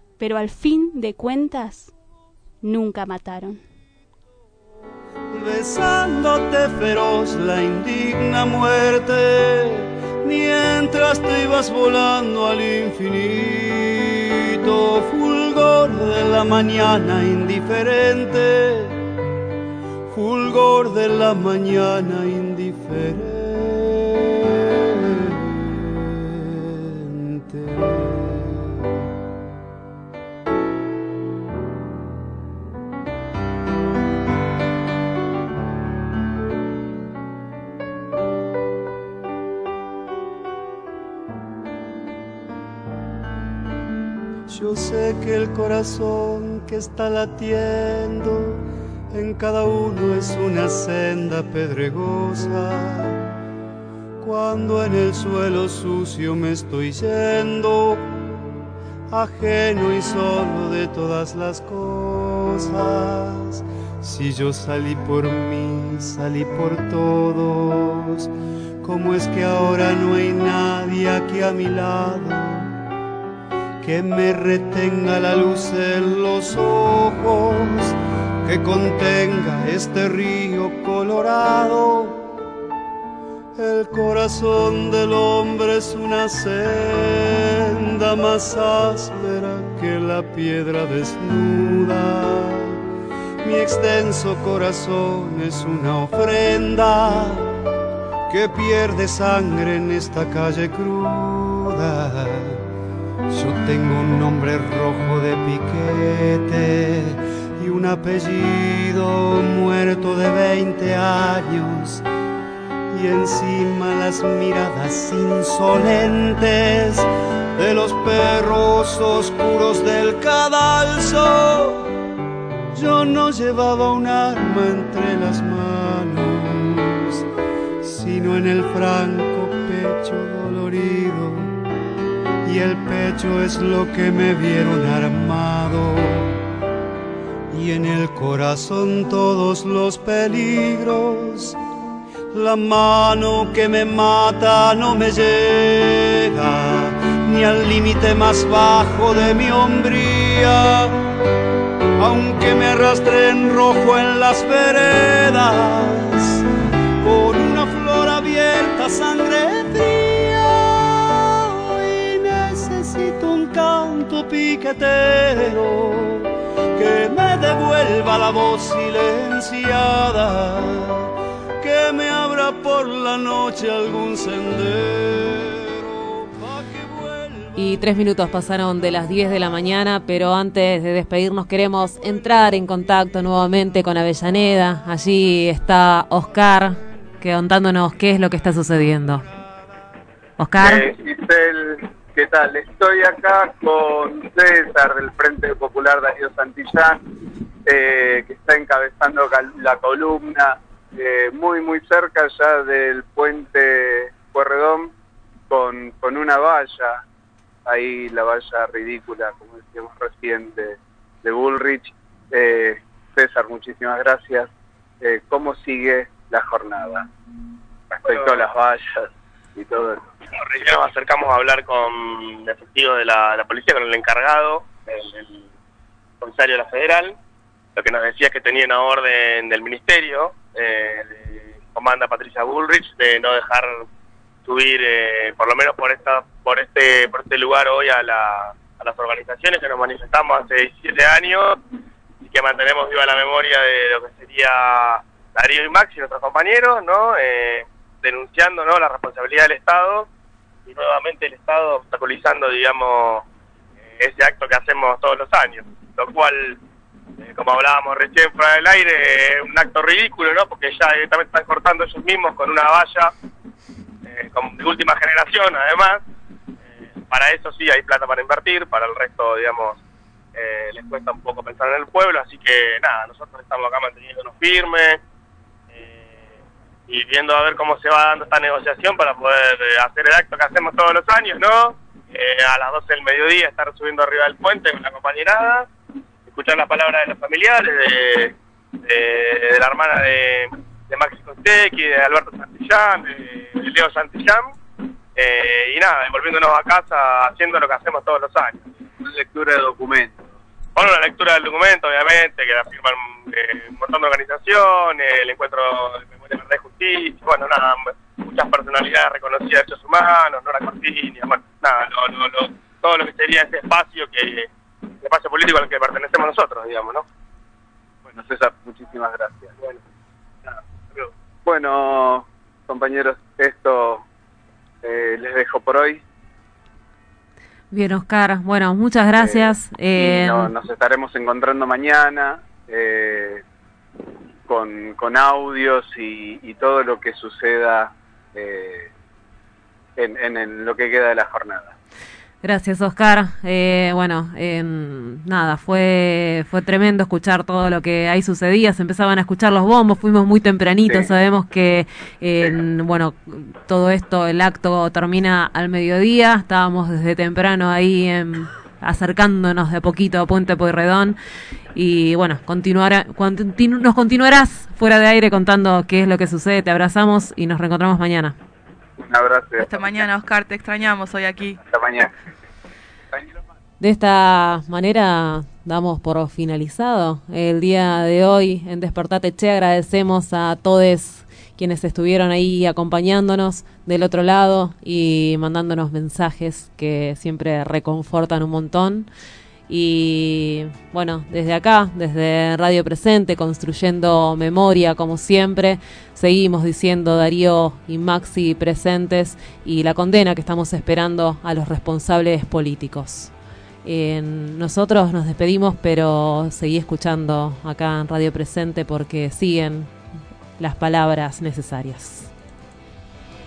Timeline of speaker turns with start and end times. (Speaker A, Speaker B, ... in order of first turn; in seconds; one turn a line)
Speaker A: 0.2-1.9
Speaker A: 2.6-3.6
Speaker B: 5.3-19.0
Speaker B: 20.1-28.7
Speaker B: 44.5-53.2
Speaker B: 54.2-58.2
Speaker B: 59.1-68.3
Speaker B: 68.8-72.7
Speaker B: 73.8-82.3
Speaker B: 83.6-92.8
Speaker B: 93.4-97.5
Speaker B: 98.3-102.6
Speaker B: 103.3-112.0
Speaker B: 112.9-121.9
Speaker B: 122.7-127.2
Speaker B: 127.8-131.6
Speaker B: 132.4-136.4
Speaker B: 137.5-141.6
Speaker B: 142.3-151.0
Speaker B: 152.0-156.4
Speaker B: 157.0-177.6
Speaker C: 177.6-189.2
Speaker C: 190.4-190.9
Speaker D: 190.6-197.0
Speaker D: 197.7-204.9
Speaker D: 205.5-207.0
Speaker D: 207.7-214.5
Speaker D: 215.0-217.1
Speaker D: 217.9-220.1
Speaker E: 218.1-218.4
Speaker E: 220.4-225.4
Speaker E: 226.2-227.2
Speaker E: 227.8-233.8
Speaker E: 234.4-241.6
Speaker E: 242.2-250.1
Speaker E: 250.7-253.2
Speaker E: 253.9-256.6
Speaker E: 257.2-263.1
Speaker E: 264.1-266.0
Speaker E: 267.1-269.8
Speaker E: 270.4-275.0
Speaker E: 275.7-276.2
Speaker E: 276.9-285.7
Speaker E: 286.3-294.6
Speaker E: 295.2-298.7
Speaker D: 299.0-300.2
Speaker E: 300.8-314.5
Speaker E: 315.0-317.1
Speaker D: 318.1-319.8
Speaker D: 321.4-324.1
Speaker D: 324.8-326.0
Speaker C: 327.7-330.5
Speaker D: 329.2-333.4
Speaker D: 334.5-338.9
Speaker D: 340.0-341.7
Speaker C: 342.4-361.2
Speaker C: 361.7-368.4
Speaker D: 369.0-370.1
Speaker F: 369.6-371.6
Speaker D: 371.6-372.1
Speaker C: 373.8-389.1
Speaker C: 389.7-403.3
Speaker C: 403.8-409.9
Speaker C: 410.6-412.3